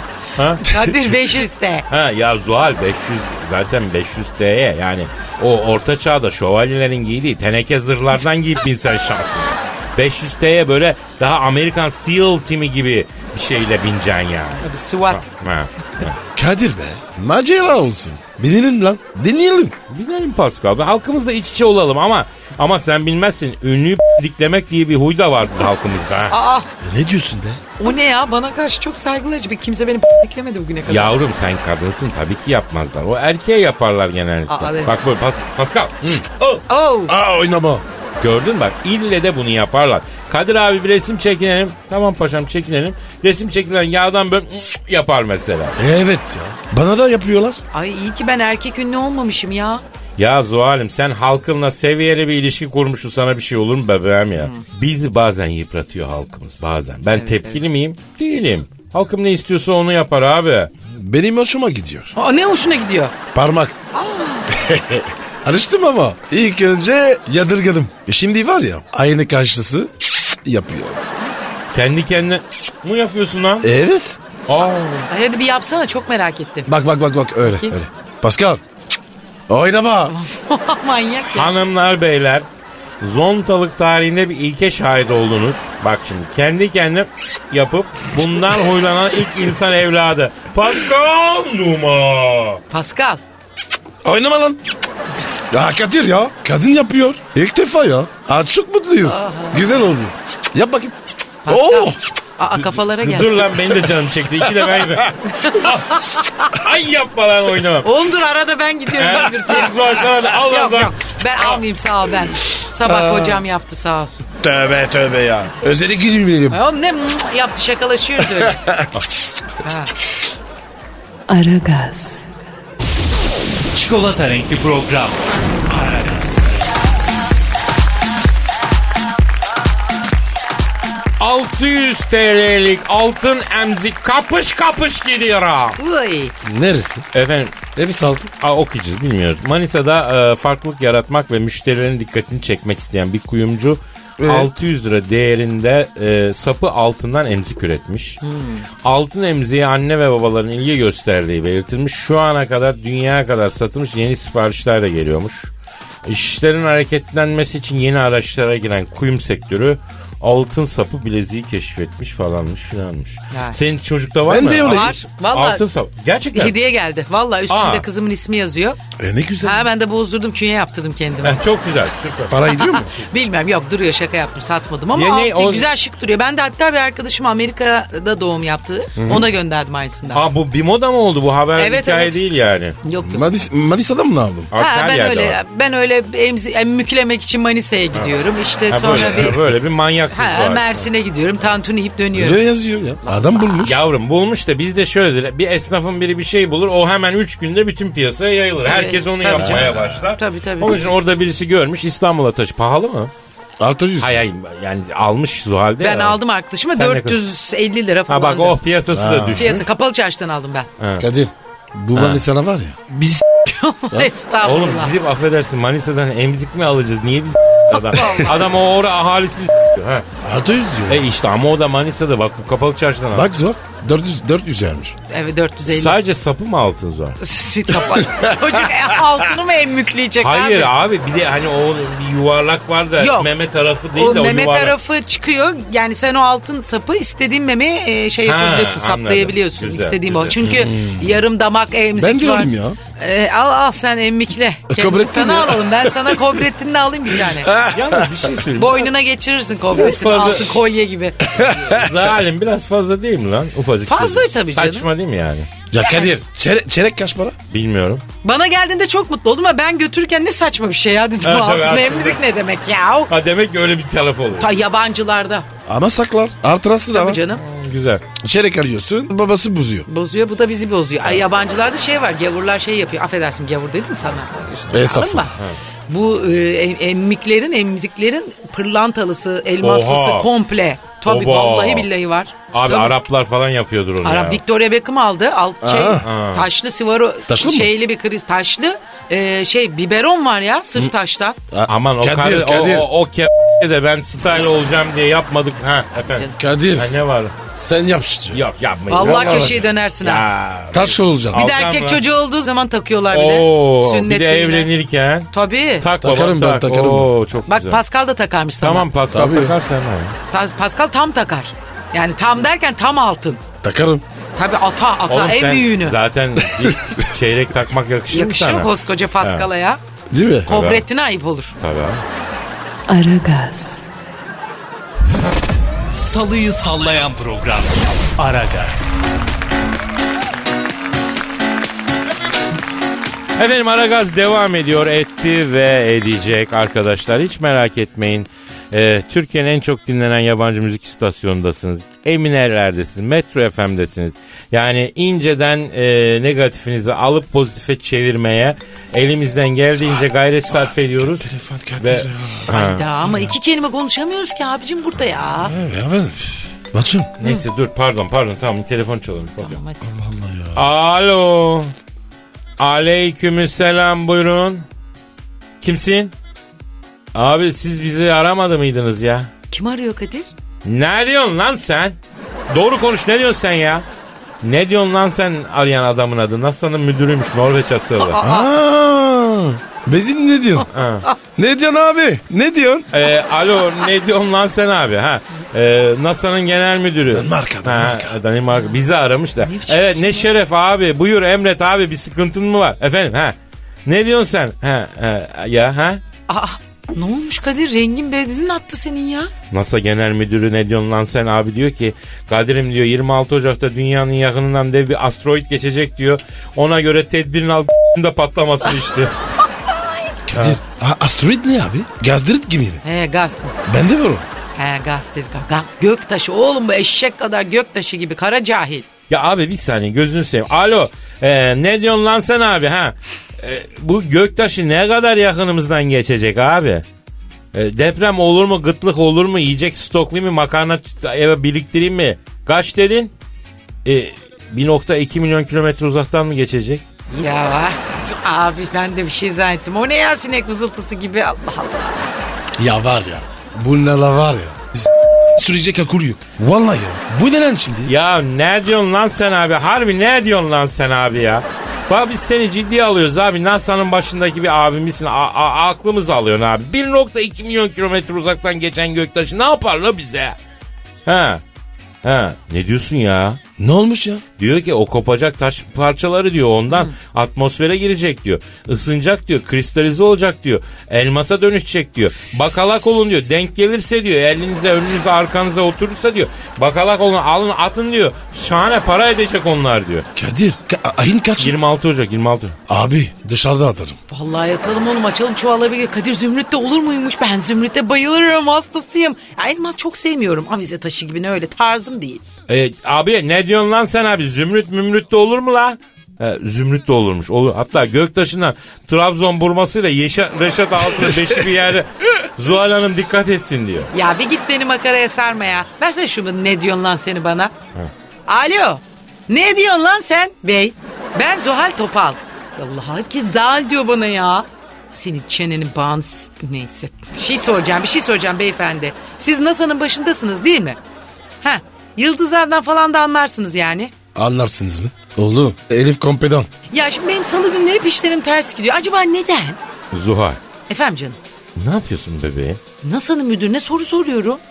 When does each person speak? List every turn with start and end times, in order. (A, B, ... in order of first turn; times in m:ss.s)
0:00.4-0:00.6 A
0:00.6-0:01.8 B
0:01.9-0:16.2 A
0:14.6-0:15.3 B
0:16.3-0:19.8 C
0:19.9-0:26.3 A
0:26.3-0:26.7 B
0:26.8-0:27.6 C
0:27.8-0:31.1 B
0:30.9-0:36.6 A
0:34.5-0:34.9 B
0:36.7-0:37.1 B
0:37.1-0:37.8 C
0:38.2-0:45.8 A
0:45.8-0:47.6 C
0:47.7-0:49.8 B
0:50.2-1:00.7 A
0:54.4-0:54.6 B
0:57.1-0:57.6 B
1:00.9-1:02.1 C
1:02.2-1:03.1 B
1:03.3-1:03.8 C
1:03.9-1:04.5 B
1:04.5-1:11.0 C
1:11.7-1:13.7 A
1:13.6-1:14.2 C
1:14.5-1:15.1 A
1:15.1-1:16.7 B
1:16.6-1:18.6 C
1:17.4-1:17.7 B
1:19.5-1:20.1 C
1:20.1-1:21.5 B
1:21.3-1:22.4 A
1:23.0-1:32.6 A
1:32.7-1:33.2 B
1:34.0-1:34.6 C
1:35.5-1:42.0 C
1:39.0-1:39.8 B
1:41.4-1:43.5 B
1:43.0-1:48.0 A
1:45.4-1:46.6 B
1:47.8-1:54.2 B
1:49.0-1:51.6 A
1:52.8-1:53.4 C
1:54.4-1:56.6 C
1:56.5-1:58.6 B
1:58.3-1:58.9 C
1:59.6-1:59.9 B
2:01.3-2:02.3 D
2:03.7-2:06.5 E
2:11.2-2:15.8 A
2:15.8-2:16.3 B
2:16.4-2:17.0 C
2:17.1-2:17.7 A
2:17.7-2:18.3 C
2:18.4-2:28.2 A
2:24.2-2:24.5 C
2:28.2-2:28.6 B
2:28.8-2:35.5 A
2:36.0-2:46.6 A
2:43.3-2:43.6 B
2:44.2-2:45.0 C
2:44.6-2:45.6 B
2:46.3-2:48.8 B
2:47.5-2:47.8 A
2:49.0-2:49.7 C
2:49.4-2:51.4 B
2:51.2-2:52.4 A
2:52.3-2:52.9 C
2:52.5-3:00.2 B
2:54.9-2:55.7 A
2:59.0-2:59.2 C
3:00.1-3:02.8 A
3:01.6-3:02.2 B
3:02.8-3:03.3 B
3:03.0-3:04.5 C
3:04.5-3:05.4 A
3:04.5-3:09.4 B
3:08.7-3:10.8 A
3:08.9-3:09.3 C
3:10.1-3:12.4 B
3:12.1-3:13.8 C
3:13.0-3:13.7 B
3:13.6-3:23.1 A
3:18.6-3:20.8 B
3:19.3-3:19.8 C
3:23.6-3:24.2 C
3:24.0-3:26.2 A
3:25.8-3:28.6 B
3:26.7-3:27.2 A
3:28.1-3:29.6 A
3:28.9-3:29.6 C
3:29.4-3:30.7 B
3:30.8-3:31.0 A
3:31.0-3:33.2 C
3:31.9-3:32.2 A
3:33.4-3:34.9 B
3:34.4-3:40.0 A
3:37.8-3:38.3 B
3:40.2-3:41.0 C
3:40.9-3:43.3 A
3:43.1-3:44.9 C
3:45.1-3:46.0 B
3:45.6-3:47.2 A
3:47.2-3:50.7 B
3:50.2-3:54.8 A
3:53.0-3:53.3 B
3:53.9-4:07.5 B
3:58.2-4:00.7 A
4:00.5-4:01.0 C
4:02.0-4:02.8 C
4:04.7-4:06.4 C
4:07.2-4:08.1 C
4:07.6-4:08.9 A
4:08.6-4:11.8 B
4:09.7-4:10.6 A
4:11.3-4:11.9 C
4:11.7-4:15.5 A
4:13.8-4:14.9 B
4:15.7-4:17.4 C
4:15.8-4:16.1 B
4:17.5-4:18.0 A
4:18.2-4:23.1 B
4:21.2-4:22.2 A
4:23.1-4:24.5 A
4:24.4-4:25.4 B
4:25.7-4:27.2 C
4:26.9-4:27.4 B
4:27.3-4:28.0 A
4:28.2-4:29.9 C
4:29.9-4:35.4 B
4:34.7-4:35.3 C
4:35.9-4:43.0 B
4:39.6-4:40.3 A
4:41.0-4:41.9 A
4:42.5-4:44.4 A
4:44.0-4:51.4 B
4:45.6-4:46.1 C
4:46.0-4:46.4 A
4:47.3-4:47.7 C
4:51.5-4:52.9 C
4:51.7-4:57.4 A
4:56.0-4:56.3 B
4:56.4-4:57.0 C
4:57.5-4:58.4 C
4:58.3-5:02.0 A
4:58.9-5:00.2 B
4:58.9-4:59.7 C
5:00.7-5:01.4 C
5:01.3-5:04.7 B
5:03.1-5:07.8 A
5:05.3-5:05.9 B
5:06.0-5:07.1 C
5:07.5-5:08.9 B
5:08.6-5:10.2 A
5:09.1-5:09.5 C
5:10.3-5:13.4 B
5:13.6-5:14.0 C
5:14.4-5:16.0 B
5:15.1-5:19.4 A
5:16.6-5:17.0 C
5:18.1-5:19.8 B
5:20.1-5:20.5 C
5:20.4-5:21.5 B
5:20.5-5:20.8 A
5:21.6-5:22.0 A
5:22.9-5:23.9 D
5:25.9-5:28.9 E
5:33.4-5:52.8 A
5:50.5-5:52.5 C
5:52.5-5:55.5 B
5:55.4-5:57.1 C
5:57.2-5:59.6 A
5:59.4-5:59.9 B
5:59.8-6:00.6 C
6:00.5-6:01.7 A
6:02.6-6:04.6 A
6:05.6-6:06.1 A
6:07.1-6:09.3 A
6:09.5-6:10.3 B
6:10.6-6:12.0 A
6:12.5-6:13.8 A
6:14.4-6:18.2 A
6:18.0-6:18.4 B
6:18.2-6:20.7 C
6:20.7-6:21.0 A
6:21.4-6:22.9 C
6:22.9-6:36.0 A
6:27.1-6:28.2 C
6:28.5-6:28.8 B
6:29.4-6:30.3 B
6:36.3-6:39.3 B
6:39.5-6:49.1 A
6:50.3-6:52.8 C
6:52.8-6:53.5 B
6:53.6-6:54.2 C
6:54.6-6:58.9 B
6:59.1-7:06.8 A
7:07.5-7:13.1 A
7:13.8-7:16.8 A
7:17.1-7:22.1 B
7:22.6-7:27.9 C
7:27.8-7:40.4 A
7:41.0-7:41.4 A
7:42.0-7:43.4 A
7:43.6-7:44.2 C
7:44.4-8:00.0 A
8:00.2-8:01.6 C
8:01.4-8:02.6 A
8:02.7-8:04.0 C
8:04.1-8:12.2 B
8:12.5-8:23.9 A
8:23.9-8:27.5 B
8:28.3-8:40.8 B
8:41.4-8:43.9 B
8:44.1-8:46.5 C
8:46.7-8:49.6 B
8:49.9-8:50.4 A
8:50.7-8:51.2 B
8:51.6-8:52.6 A
8:52.8-8:54.4 B